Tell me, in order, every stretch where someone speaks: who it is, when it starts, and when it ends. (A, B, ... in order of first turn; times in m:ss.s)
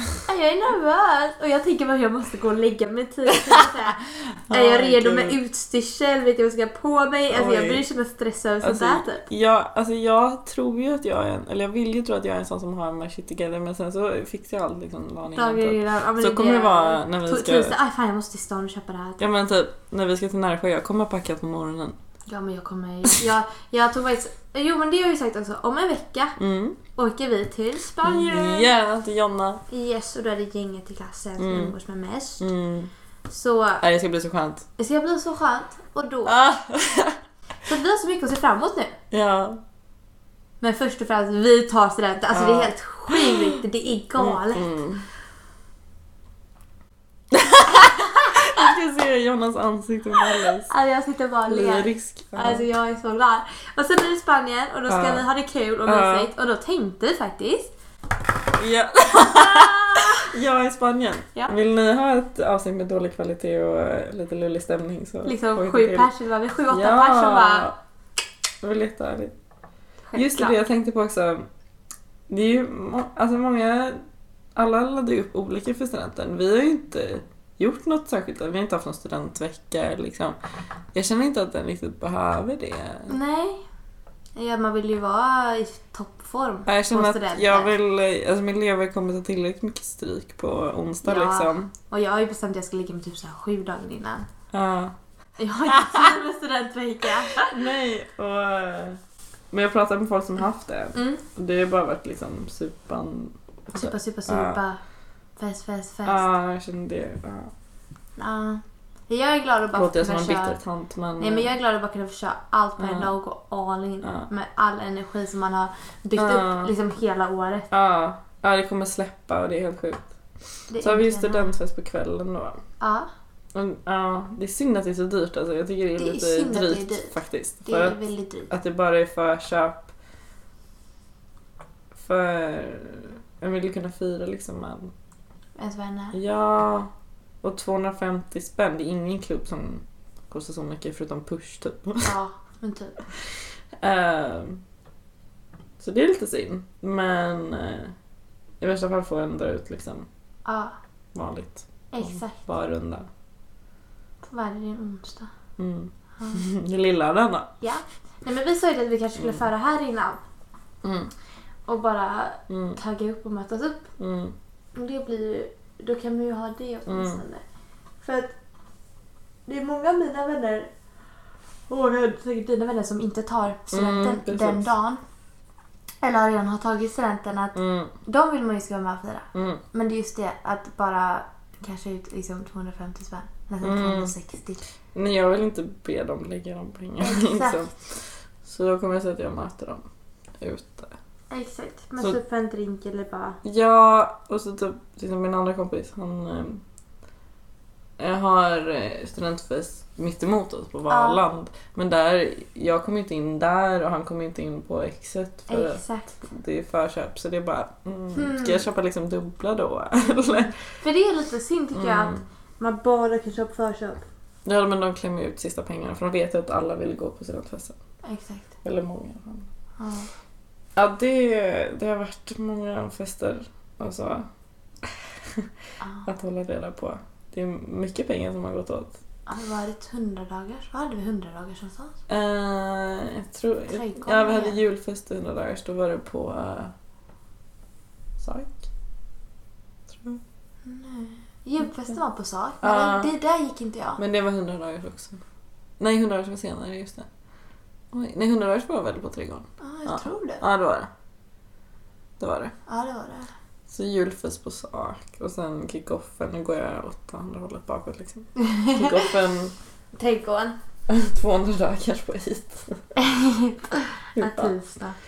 0:00.2-0:09.3 A
0:03.3-0:03.8 B
0:04.5-0:05.4 B
0:07.3-0:07.8 B
0:08.6-0:17.8 B
0:15.3-0:19.3 A
0:19.2-0:22.0 B
0:22.3-0:26.4 A
0:26.4-0:26.8 B
0:27.0-0:28.7 A
0:28.0-0:29.6 B
0:29.7-0:32.4 A
0:31.4-0:31.8 B
0:32.4-0:32.9 B
0:33.3-0:33.8 A
0:33.8-0:34.7 B
0:34.8-0:36.4 A
0:36.3-0:37.2 B
0:37.6-0:39.0 A
0:39.1-0:39.6 B
0:40.6-0:44.7 A
0:42.3-0:43.6 B
0:44.2-0:45.1 B
0:47.3-0:50.7 B
0:50.7-0:57.7 A
0:51.5-0:52.7 B
0:54.9-0:55.3 B
0:55.8-0:56.3 B
0:58.6-1:06.1 B
0:59.1-1:00.3 A
1:05.2-1:07.7 A
1:06.7-1:07.8 B
1:08.6-1:09.4 B
1:10.1-1:10.6 A
1:10.2-1:11.5 B
1:12.3-1:14.0 B
1:14.6-1:20.4 B
1:20.9-1:23.1 B
1:23.1-1:23.6 A
1:24.4-1:27.7 A
1:26.7-1:31.7 B
1:31.0-1:34.3 A
1:34.5-1:35.0 B
1:35.4-1:37.6 A
1:35.8-1:36.1 B
1:37.4-1:39.0 B
1:39.5-1:44.6 B
1:41.0-1:41.2 A
1:43.7-1:44.8 A
1:45.4-1:46.3 A
1:46.0-1:47.5 B
1:48.2-1:50.6 A
1:49.7-1:51.5 B
1:51.2-1:57.7 A
1:52.8-1:53.1 B
1:54.0-1:54.3 B
1:56.2-1:56.7 B
1:57.7-2:00.1 B
2:00.7-2:01.5 A
2:00.8-2:02.6 B
2:02.8-2:03.1 A
2:03.5-2:09.9 B
2:06.0-2:07.1 A
2:07.6-2:08.5 A
2:11.9-2:14.9 B
2:15.6-2:16.2 A
2:16.1-2:16.9 B
2:17.4-2:22.1 B
2:22.0-2:23.0 A
2:23.8-2:24.6 B
2:25.8-2:28.0 B
2:28.6-2:30.1 B
2:30.4-2:30.8 A
2:31.1-2:33.1 B
2:31.9-2:32.4 A
2:34.2-2:35.3 A
2:35.6-2:37.5 B
2:36.2-2:36.4 A
2:37.6-2:40.2 A
2:40.8-2:41.1 B
2:41.7-2:43.9 A
2:42.5-2:42.8 B
2:44.0-2:44.4 B
2:44.8-2:47.4 A
2:46.9-2:47.2 B
2:48.0-2:48.4 A
2:49.5-2:50.7 A
2:51.7-2:55.0 A
2:53.7-2:54.7 B
2:56.0-3:04.6 A
2:57.6-2:57.9 B
2:59.3-2:59.6 B
3:03.6-3:04.1 B
3:04.9-3:09.8 B
3:07.0-3:07.6 A
3:10.4-3:10.9 B
3:11.3-3:13.4 A
3:13.4-3:16.6 B
3:18.0-3:30.6 B
3:20.9-3:21.2 A
3:25.5-3:26.3 A
3:28.2-3:28.6 A
3:30.8-3:34.1 A
3:31.7-3:32.2 B
3:34.4-3:37.8 B
3:38.0-3:38.5 A
3:38.6-3:39.5 B
3:39.8-3:40.1 A
3:40.8-3:44.3 B
3:44.8-3:45.5 B
3:45.8-3:46.1 A
3:46.0-3:49.0 B
3:49.3-3:52.0 A
3:52.1-3:56.7 B
3:53.7-3:54.6 A
3:58.2-3:58.6 B
3:59.9-4:00.2 B
4:00.6-4:04.0 A
4:02.6-4:03.1 B
4:04.0-4:05.2 B
4:05.8-4:07.1 B
4:07.9-4:10.9 B
4:09.6-4:10.4 A
4:12.2-4:12.5 B
4:12.7-4:13.3 A
4:13.7-4:19.6 B
4:18.4-4:19.1 A
4:19.9-4:20.6 A
4:20.9-4:22.8 B
4:23.0-4:25.0 A
4:24.2-4:24.6 B